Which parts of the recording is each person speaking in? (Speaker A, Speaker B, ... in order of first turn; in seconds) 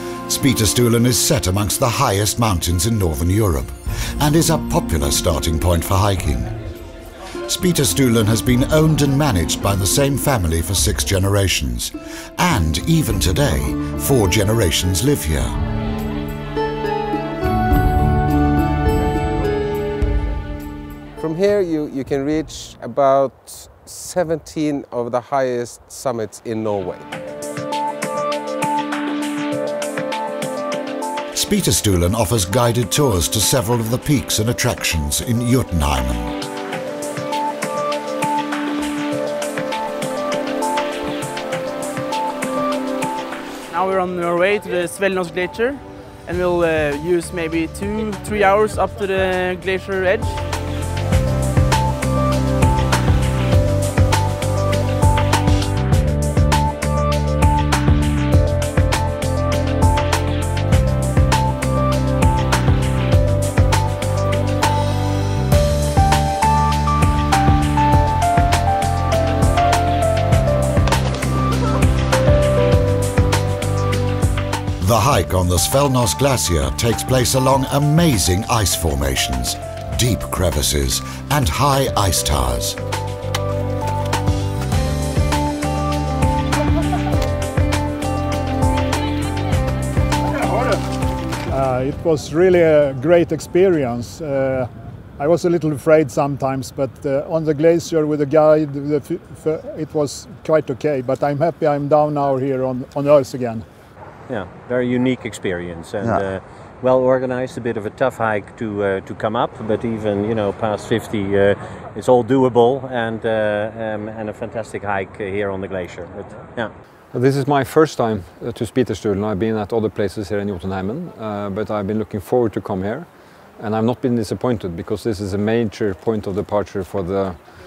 Speaker A: 0.2-6.5, 7.5-15.6, 31.3-36.4, 74.8-82.8
Speaker B: 21.2-27.1
Speaker C: 43.7-50.4
Speaker D: 91.5-103.7
Speaker E: 104.3-116.7
Speaker F: 117.1-127.4